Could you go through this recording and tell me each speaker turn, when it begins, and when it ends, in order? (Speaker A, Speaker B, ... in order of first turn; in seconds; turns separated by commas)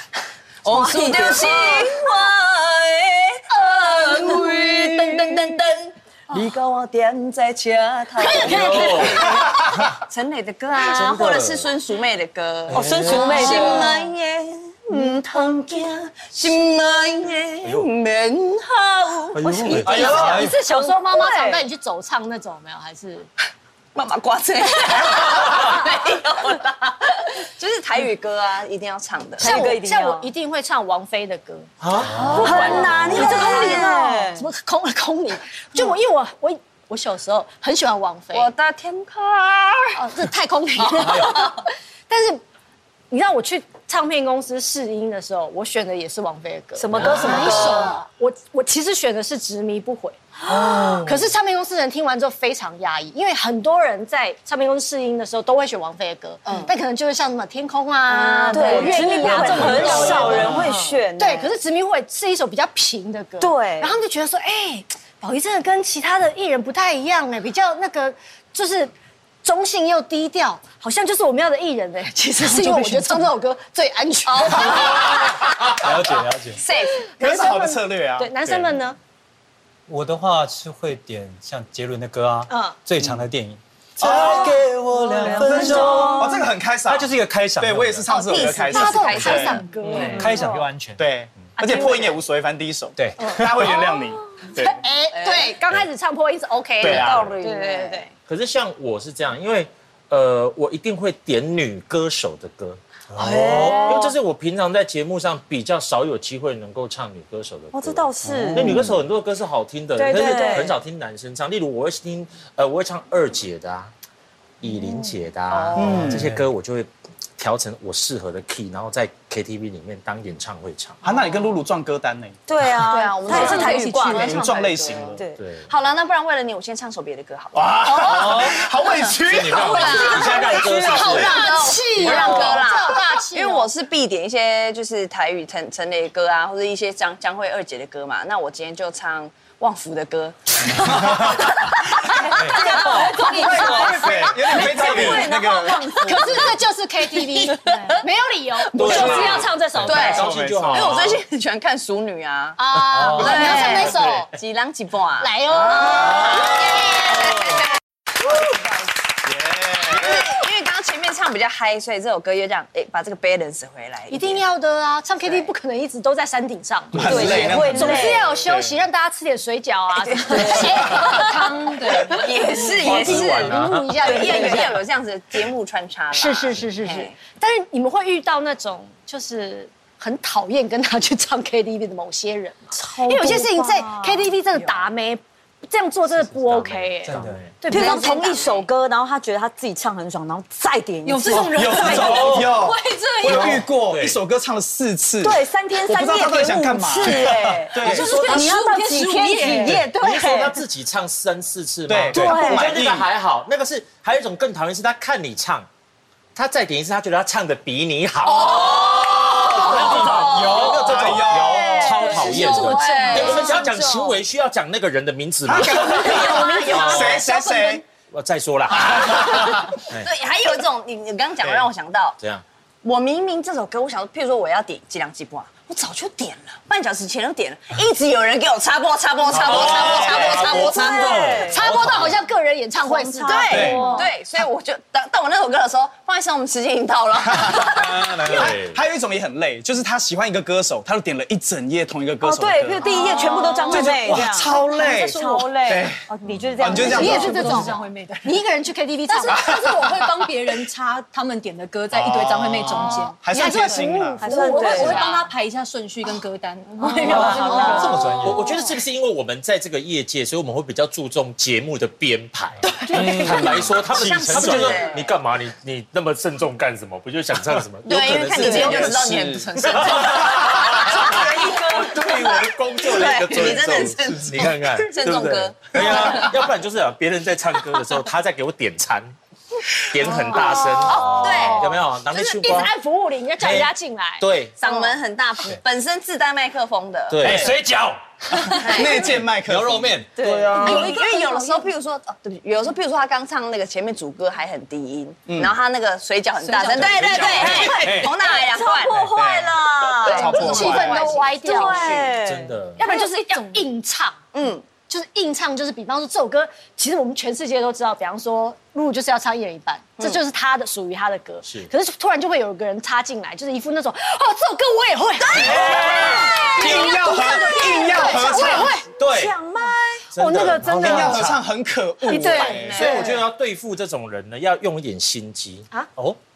Speaker A: 0.6-20.1, Speaker B: 0.7-1.9, Speaker C: 8.2-9.4, Speaker D: 8.3-9.4, Speaker D: 10.8-11.7, Speaker D: 12.7-13.6, Speaker B: 12.7-14.1, Speaker E: 12.8-13.1, Speaker C: 13.3-13.9, Speaker D: 17.6-17.9, Speaker D: 19.3-20.1, Speaker B: 19.6-21.6, Speaker E: 19.7-20.6, Speaker C: 19.9-23.3, Speaker F: 19.9-20.3, Speaker A: 23.9-29.6, Speaker B: 29.4-30.3, Speaker C: 29.4-38.5, Speaker D: 31.8-32.4, Speaker E: 32.0-32.5, Speaker B: 32.2-34.5, Speaker A: 32.2-33.9, Speaker A: 38.3-40.0, Speaker C: 39.9-42.4, Speaker A: 40.8-41.6, Speaker E: 41.1-41.3, Speaker C: 43.1-50.2, Speaker B: 46.8-48.0, Speaker B: 50.5-51.0, Speaker E: 50.5-51.1, Speaker C: 51.0-60.6, Speaker A: 56.4-56.7, Speaker A: 58.1-60.4, Speaker B: 58.4-61.5, Speaker D: 59.5-60.1, Speaker E: 59.6-60.5, Speaker C: 61.2-68.9, Speaker B: 63.4-64.0, Speaker C: 69.4-75.3, Speaker G: 72.4-73.3, Speaker A: 74.2-75.6, Speaker E: 75.7-76.6, Speaker A: 76.5-77.1, Speaker C: 77.1-79.0, Speaker F: 77.2-78.7, Speaker E: 79.9-88.1, Speaker C: 82.5-82.8, Speaker F: 84.0-84.6, Speaker C: 84.1-84.5, Speaker B: 85.2-86.5, Speaker F: 85.2-89.6, Speaker C: 85.2-86.1, Speaker A: 88.1-90.4, Speaker C: 88.3-90.6, Speaker E: 89.9-91.0, Speaker B: 90.0-90.4, Speaker F: 91.0-94.8, Speaker C: 91.6-92.2, Speaker E: 93.0-93.7, Speaker C: 93.2-93.9, Speaker C: 94.5-98.0, Speaker A: 95.1-95.6, Speaker A: 96.8-98.1, Speaker F: 96.8-97.3, Speaker D: 98.3-113.9, Speaker E: 103.1-104.0, Speaker B: 103.2-104.1, Speaker B: 107.7-108.8, Speaker E: 108.2-109.0, Speaker B: 110.0-110.8, Speaker D: 114.6-121.0, Speaker B: 114.6-115.1, Speaker A: 115.5-116.1, Speaker F: 115.8-116.3, Speaker E: 116.0-116.4, Speaker F: 121.0-122.4, Speaker B: 122.5-124.3, Speaker A: 122.8-146.6, Speaker G: 123.2-124.6, Speaker F: 124.1-125.2, Speaker B: 125.1-125.4, Speaker D: 125.4-125.7, Speaker F: 127.5-130.3, Speaker D: 129.2-131.5, Speaker C: 129.7-133.7, Speaker B: 132.1-132.5, Speaker F: 140.8-141.3, Speaker E: 142.3-143.0, Speaker B: 142.6-145.3, Speaker G: 142.8-144.0, Speaker C: 143.0-143.9, Speaker F: 143.3-145.9, Speaker C: 146.0-150.2, Speaker A: 147.1-148.0, Speaker G: 147.7-147.9, Speaker A: 148.7-157.7, Speaker D: 148.7-151.2, Speaker F: 148.8-149.4, Speaker F: 150.1-150.9, Speaker C: 152.6-154.3, Speaker E: 153.0-153.3, Speaker D: 153.0-154.2, Speaker C: 155.2-157.2, Speaker A: 158.3-158.6, Speaker F: 159.4-160.0, Speaker A: 159.9-164.4, Speaker C: 164.1-174.8, Speaker A: 165.2-165.5, Speaker F: 166.9-168.7, Speaker B: 167.0-168.3, Speaker A: 170.0-171.5, Speaker B: 170.3-170.9, Speaker G: 171.1-172.5, Speaker A: 172.0-177.2, Speaker D: 172.7-174.2, Speaker B: 174.1-174.7, Speaker C: 176.1-188.4, Speaker B: 182.7-184.3, Speaker D: 186.1-187.6, Speaker E: 187.1-187.4, Speaker B: 187.7-192.1, Speaker A: 187.7-188.7, Speaker G: 191.0-193.6, Speaker F: 191.4-198.4, Speaker E: 191.8-192.5, Speaker E: 193.2-193.6, Speaker D: 193.8-194.2, Speaker B: 195.2-200.6, Speaker G: 197.8-200.0, Speaker D: 197.8-198.5, Speaker D: 199.6-205.7, Speaker F: 201.9-203.1, Speaker B: 202.1-202.7, Speaker E: 202.1-202.4, Speaker D: 206.3-208.8, Speaker A: 208.2-211.1, Speaker F: 209.0-212.0, Speaker D: 209.3-217.2, Speaker E: 209.5-211.5, Speaker B: 211.5-213.5, Speaker A: 211.7-213.8, Speaker C: 211.8-213.8, Speaker F: 215.4-217.8, Speaker A: 215.6-217.8, Speaker C: 216.1-216.7, Speaker D: 218.1-220.1, Speaker A: 218.8-222.2, Speaker F: 218.9-219.8, Speaker A: 222.8-231.4, Speaker F: 229.3-230.7, Speaker E: 229.3-231.0, Speaker D: 229.4-232.1, Speaker C: 230.3-234.1, Speaker B: 230.5-231.7, Speaker E: 231.6-232.1, Speaker B: 232.8-234.1, Speaker A: 233.2-238.4, Speaker F: 233.5-233.9, Speaker F: 237.3-243.0, Speaker E: 237.5-238.5, Speaker D: 238.3-238.8, Speaker B: 242.2-247.8, Speaker C: 242.8-243.9, Speaker G: 242.9-245.5, Speaker F: 243.7-246.1, Speaker D: 246.3-246.7, Speaker F: 246.6-247.5, Speaker G: 246.7-248.4, Speaker C: 246.8-249.9, Speaker G: 249.1-258.3, Speaker F: 249.3-249.8, Speaker F: 251.9-254.2, Speaker C: 253.0-255.3, Speaker B: 254.2-255.2, Speaker A: 256.8-257.1, Speaker C: 256.9-258.2, Speaker B: 256.9-258.1, Speaker E: 257.1-258.4, Speaker D: 258.1-279.1, Speaker B: 262.9-263.7, Speaker A: 262.9-265.1, Speaker E: 264.0-264.8, Speaker A: 267.8-276.4, Speaker F: 268.1-270.5, Speaker B: 270.9-272.1, Speaker D: 279.8-282.7, Speaker C: 280.1-284.7, Speaker A: 280.3-281.8, Speaker B: 280.3-281.5, Speaker D: 283.4-284.5, Speaker A: 284.6-287.6, Speaker D: 287.1-287.6, Speaker E: 287.2-288.8, Speaker A: 288.6-289.1, Speaker F: 288.7-290.1, Speaker E: 289.4-290.9, Speaker B: 290.1-291.0, Speaker C: 290.6-291.7, Speaker A: 290.6-299.0, Speaker F: 295.3-295.5, Speaker G: 296.4-297.6, Speaker E: 297.0-298.1, Speaker B: 297.2-302.5, Speaker F: 299.1-301.1, Speaker A: 300.0-302.1, Speaker C: 300.2-302.1, Speaker D: 302.2-302.8, Speaker C: 302.8-304.2, Speaker G: 302.8-303.7, Speaker A: 304.3-304.6, Speaker C: 304.9-318.9, Speaker D: 311.4-311.7, Speaker A: 315.2-316.8, Speaker B: 315.3-320.1, Speaker E: 315.4-315.9, Speaker F: 315.5-315.8, Speaker F: 316.4-319.3, Speaker E: 319.0-319.3, Speaker C: 320.1-321.2, Speaker D: 320.1-321.4, Speaker F: 320.6-323.1, Speaker E: 320.6-321.3, Speaker C: 322.0-323.2, Speaker A: 322.1-323.2, Speaker D: 322.7-325.7